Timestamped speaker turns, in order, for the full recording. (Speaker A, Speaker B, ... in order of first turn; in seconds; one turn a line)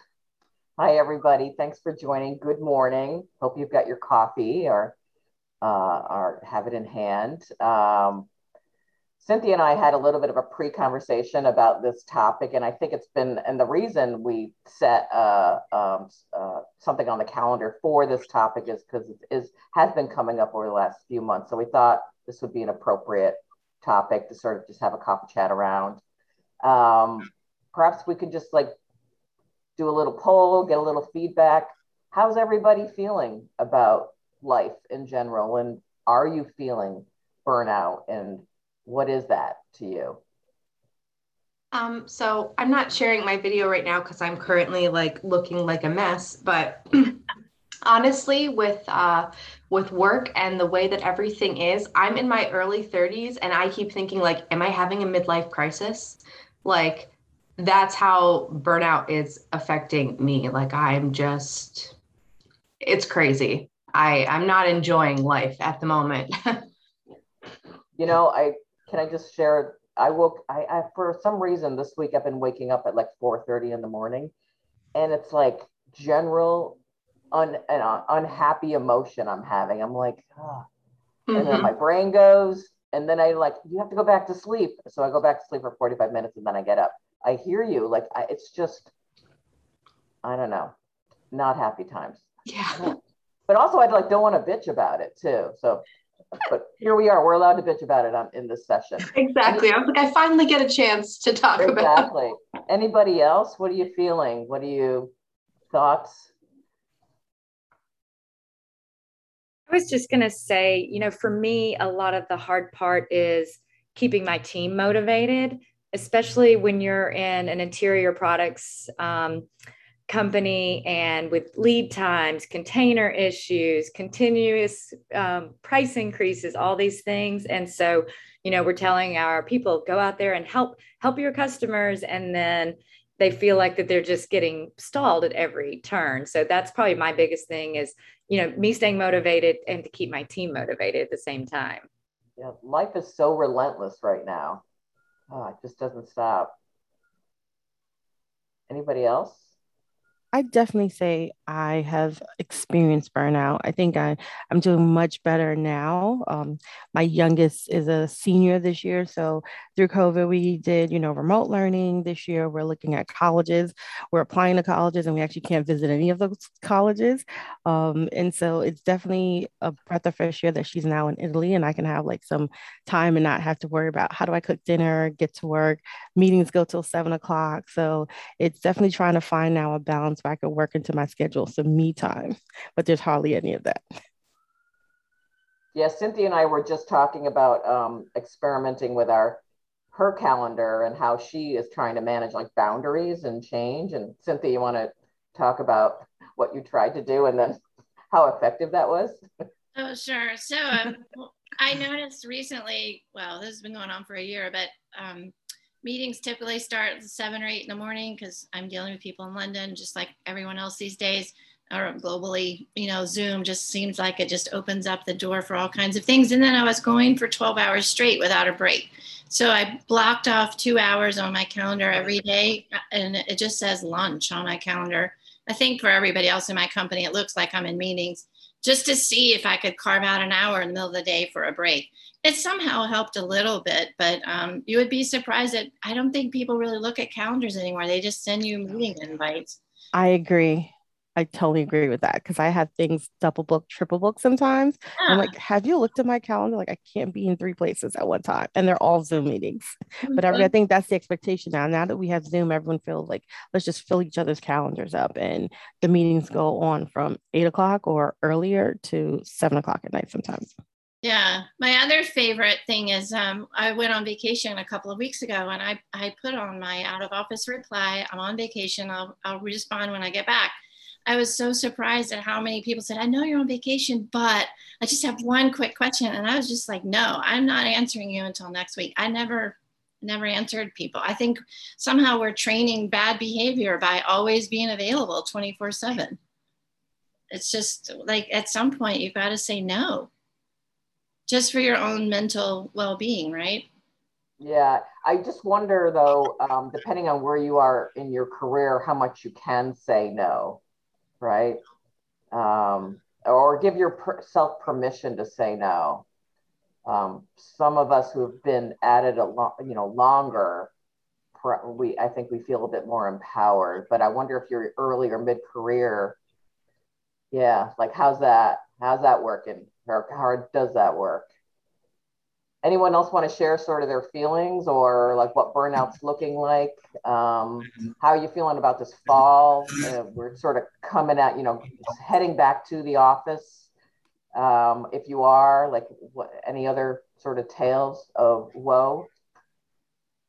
Speaker A: 0.8-4.9
Speaker A: 5.6-8.3
Speaker A: 9.2-26.0
Speaker A: 26.6-28.7
Speaker A: 29.8-40.2
Speaker B: 41.7-47.2
Speaker B: 47.8-61.9
Speaker B: 62.8-66.6
Speaker A: 68.0-74.3
Speaker A: 74.9-76.8
Speaker A: 77.3-80.6
Speaker B: 81.3-81.7
Speaker A: 81.3-88.9
Speaker A: 90.2-90.7
Speaker A: 91.3-92.2
Speaker A: 93.5-95.8
Speaker A: 96.5-99.6
Speaker B: 99.1-102.0
Speaker A: 101.6-105.1
Speaker A: 105.7-106.3
Speaker C: 109.7-119.5
Speaker C: 120.1-141.8
Speaker A: 142.4-144.6
Speaker A: 145.3-146.5
Speaker A: 148.7-149.4
Speaker D: 150.3-183.8
Speaker A: 185.7-189.4
Speaker A: 189.9-197.6
Speaker A: 198.1-199.2
Speaker E: 199.7-239.6
Speaker D: 239.9-260.5
Speaker E: 245.0-245.3
Speaker E: 261.0-286.2
Speaker E: 287.3-290.1
Speaker E: 291.3-293.7
Speaker A: 294.4-300.6
Speaker A: 301.2-301.6
Speaker A: 302.3-306.0
Speaker A: 306.8-310.7
Speaker A: 311.3-316.1
Speaker A: 317.3-321.3
Speaker A: 322.6-333.7
Speaker A: 334.3-339.1